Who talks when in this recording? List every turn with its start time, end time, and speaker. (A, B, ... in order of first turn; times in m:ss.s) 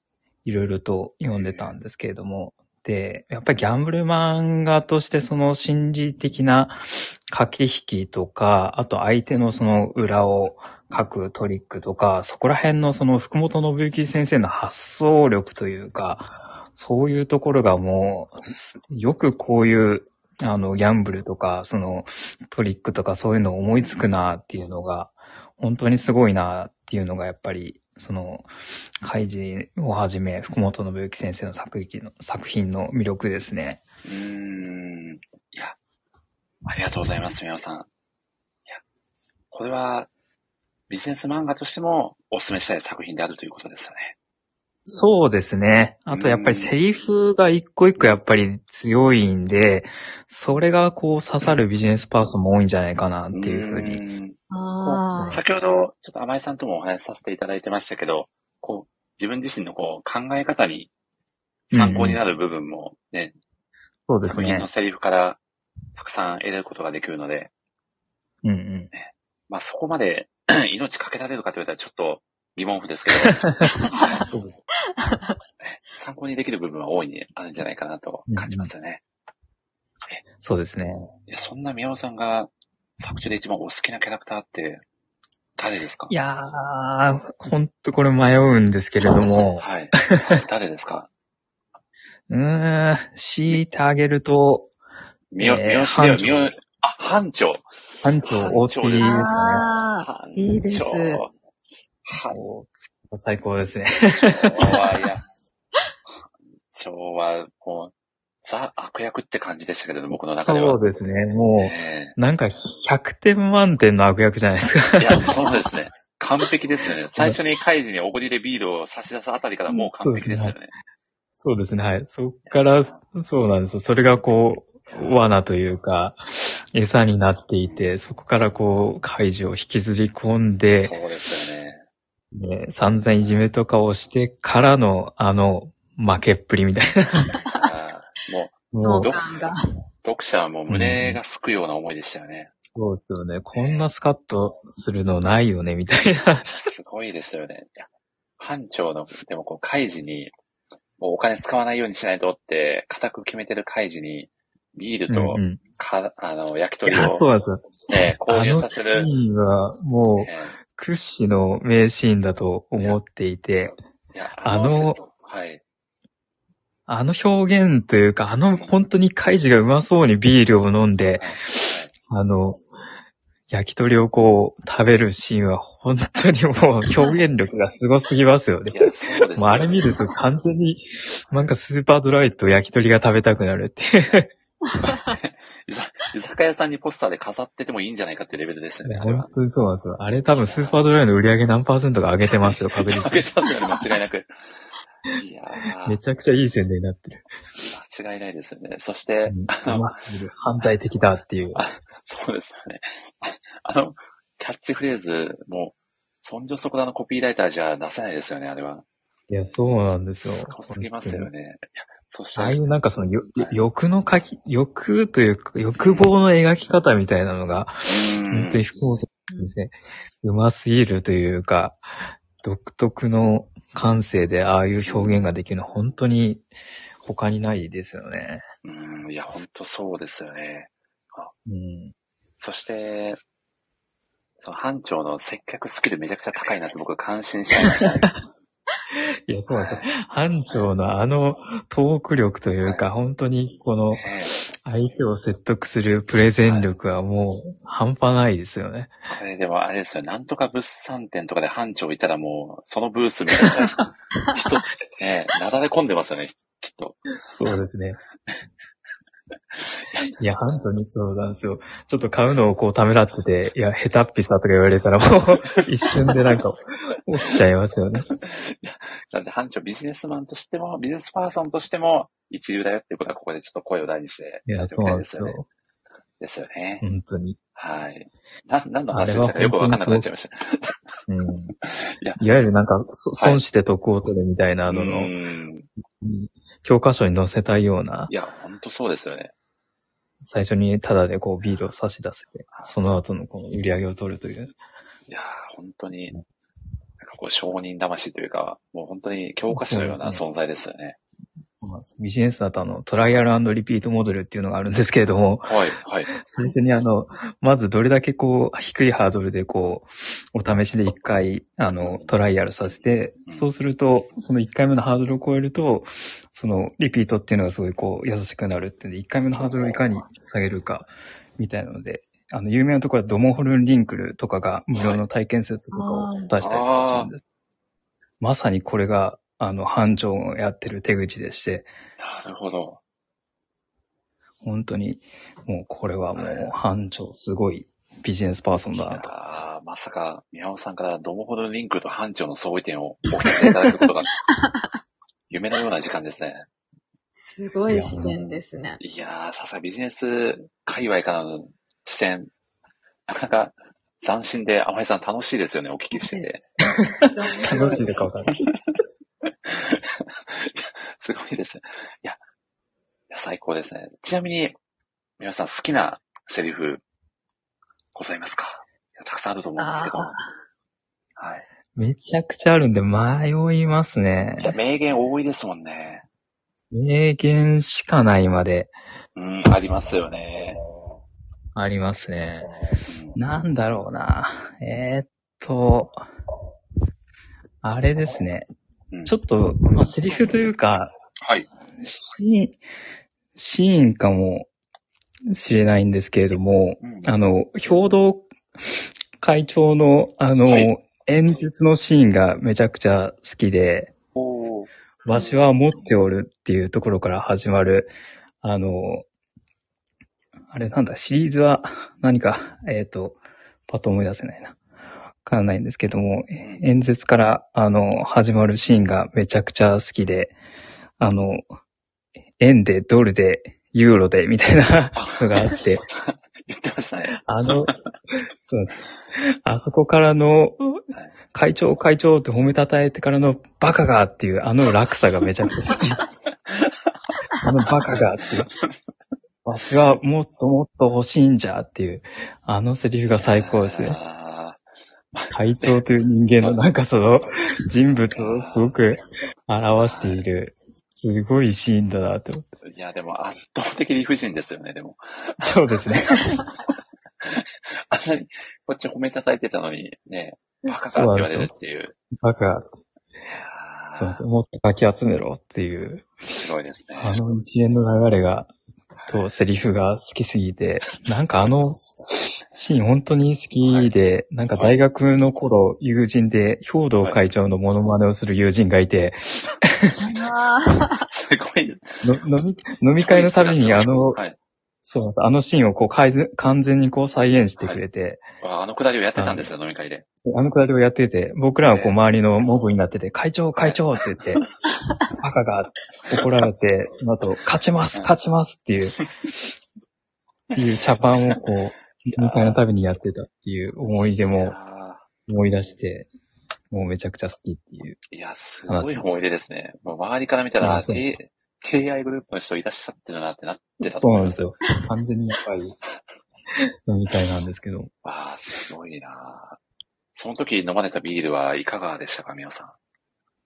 0:00.4-0:28.5 A
0:01.3-0:01.7 B
0:23.8-0:24.1 B
0:29.0-0:33.8 A
0:34.0-0:35.8 B
0:36.6-0:37.9 B
0:39.5-0:40.1 B
0:40.9-0:44.1 B
0:44.8-0:54.0 A
0:46.1-0:46.7 B
0:53.3-1:00.9 B
0:54.5-0:55.4 C
0:55.1-0:55.4 A
1:01.7-1:03.3 B
1:01.7-1:02.2 A
1:04.1-1:04.7 A
1:04.2-1:05.4 B
1:06.0-1:07.5 B
1:08.4-1:08.9 A
1:08.9-1:14.2 B
1:13.2-1:13.7 A
1:13.8-1:14.2 C
1:14.3-1:14.6 A
1:14.9-1:15.4 C
1:15.6-1:19.0 B
1:18.3-1:18.7 A
1:20.4-1:21.1 A
1:21.3-1:24.8 B
1:25.6-1:26.1 B
1:26.1-1:30.4 A
1:29.6-1:31.1 B
1:32.3-1:34.7 A
1:35.3-1:39.3 B
1:35.4-1:36.5 A
1:38.0-1:39.6 A
1:39.0-1:41.2 C
1:40.0-1:41.3 B
1:42.0-1:42.4 B
1:42.3-1:44.8 A
1:44.3-1:45.2 B
1:46.7-1:47.9 B
1:48.4-1:50.8 B
1:50.4-1:55.6 A
1:51.6-1:52.2 B
1:55.0-2:00.7 B
1:59.7-2:00.5 A
2:01.4-2:11.0 A
2:02.5-2:03.0 B
2:04.9-2:05.2 B
2:10.7-2:11.8 B
2:12.3-2:17.3 A
2:17.5-2:19.2 B
2:18.7-2:19.2 A
2:18.8-2:19.6 C
2:20.0-2:22.5 B
2:20.7-2:21.2 A
2:22.7-2:26.5 A
2:23.5-2:23.8 B
2:26.4-2:27.9 B
2:28.4-2:30.3 B
2:31.0-2:37.2 B
2:35.1-2:35.6 A
2:36.9-2:43.8 A
2:37.9-2:39.1 B
2:40.2-2:40.6 B
2:44.1-2:45.6 B
2:44.4-2:45.0 A
2:46.9-2:52.6 A
2:51.2-2:51.9 B
2:53.5-3:04.3 A
2:58.7-2:59.9 B
3:04.8-3:09.3 B
3:08.8-3:13.3 A
3:10.3-3:10.8 B
3:12.4-3:14.3 B
3:15.1-3:16.0 B
3:15.8-3:17.2 A
3:17.6-3:19.9 B
3:19.3-3:21.6 A
3:21.5-3:28.8 B
3:29.3-3:31.3 A
3:30.2-3:32.6 B
3:32.4-3:41.8 A
3:35.8-3:36.1 B
3:37.8-3:38.6 B
3:42.4-3:46.4 A
3:44.8-3:45.2 B
3:47.0-3:48.4 A
3:48.6-3:51.3 B
3:51.4-3:51.9 A
3:52.4-3:53.2 B
3:54.4-3:58.1 B
3:57.6-3:58.1 A
3:59.3-4:04.1 A
3:59.5-3:59.9 B
4:03.9-4:04.3 B
4:04.6-4:08.9 A
4:09.1-4:17.0 B
4:17.2-4:18.0 A
4:20.2-4:28.1 A
4:28.2-4:35.4 B
4:34.5-4:35.4 A
4:36.2-4:36.8 B
4:36.8-4:37.4 A
4:37.6-4:40.8 B
4:38.9-4:40.1 A
4:41.1-4:41.5 A
4:41.8-4:42.2 B
4:42.2-4:45.1 A
4:44.6-4:45.7 B
4:46.0-4:48.1 A
4:48.1-4:49.3 B
4:50.2-4:54.5 A
4:51.4-4:51.7 B
4:55.1-4:56.1 B
4:57.0-5:01.0 B
4:59.5-5:00.2 A
5:01.6-5:05.5 A
5:05.4-5:06.1 B
5:06.1-5:27.2 A
5:11.8-5:12.1 B
5:24.7-5:25.0 B
5:25.7-5:26.3 C
5:26.4-5:27.1 B
5:28.2-5:31.7 A
5:32.0-5:32.8 B
5:34.4-5:39.1 A
5:36.1-5:36.5 B
5:38.7-5:44.1 B
5:44.3-5:44.7 C
5:45.3-5:46.4 B
5:47.3-5:48.8 C
5:47.7-5:48.2 A
5:48.8-5:52.3 B
5:53.1-5:56.4 B
5:56.0-5:57.8 C
5:56.8-5:58.4 A
5:59.4-6:02.2 B
6:03.1-6:04.6 B
6:05.2-6:06.8 B
6:07.9-6:10.1 B
6:09.6-6:10.3 C
6:11.2-6:11.4 B
6:11.8-6:14.6 A
6:14.4-6:16.0 B
6:16.7-6:18.7 A
6:19.2-6:20.6 B
6:21.6-6:22.5 A
6:22.9-6:23.2 B
6:23.1-6:26.0 A
6:27.6-6:28.5 A
6:29.0-6:30.9 A
6:31.2-6:31.5 B
6:31.8-6:32.6 A
6:33.4-6:34.5 A
6:35.3-6:38.3 A
6:36.8-6:37.1 B
6:39.2-6:43.9 A
6:40.4-6:40.7 B
6:44.1-6:44.7 B
6:45.0-6:47.9 A
6:48.4-6:49.0 A
6:50.5-6:53.2 A
6:53.7-6:54.6 A
6:55.2-7:00.4 A
6:56.4-6:56.6 B
7:01.0-7:01.4 A
7:02.4-7:05.8 A
7:04.9-7:07.8 B
7:07.2-7:07.8 A
7:08.4-7:10.8 A
7:11.3-7:16.1 A
7:16.4-7:16.9 B
7:17.4-7:18.5 A
7:19.4-7:24.0 A
7:23.1-7:24.6 B
7:25.1-7:25.8 B
7:25.3-7:32.4 A
7:26.4-7:26.6 B
7:28.1-7:28.7 B
7:29.8-7:30.2 B
7:32.7-7:36.0 B
7:35.4-7:36.4 A
7:37.2-7:41.9 B
7:40.9-7:41.5 A
7:42.2-7:42.7 A
7:43.3-7:44.2 B
7:43.9-7:46.1 A
7:46.3-7:47.2 B
7:46.9-7:48.5 A
7:49.0-7:49.3 B
7:49.1-7:59.9 A
7:53.6-7:53.9 B
8:00.0-8:01.0 C
8:01.1-8:02.0 B
8:02.0-8:04.2 A
8:03.0-8:04.4 B
8:04.8-8:08.2 A
8:07.6-8:07.8 B
8:08.4-8:10.0 B
8:09.2-8:09.5 A
8:10.2-8:14.4 A
8:11.6-8:12.0 B
8:13.5-8:13.8 B
8:15.2-8:19.0 A
8:20.5-8:24.6 A
8:22.1-8:22.6 B
8:24.3-8:25.1 B
8:25.3-8:26.1 A
8:26.7-8:28.0 A
8:28.1-8:34.5 B
8:28.7-8:29.2 A
8:30.6-8:31.0 A
8:33.8-8:35.7 A
8:36.9-8:37.9 A
8:38.0-8:39.6 B
8:40.1-8:42.7 B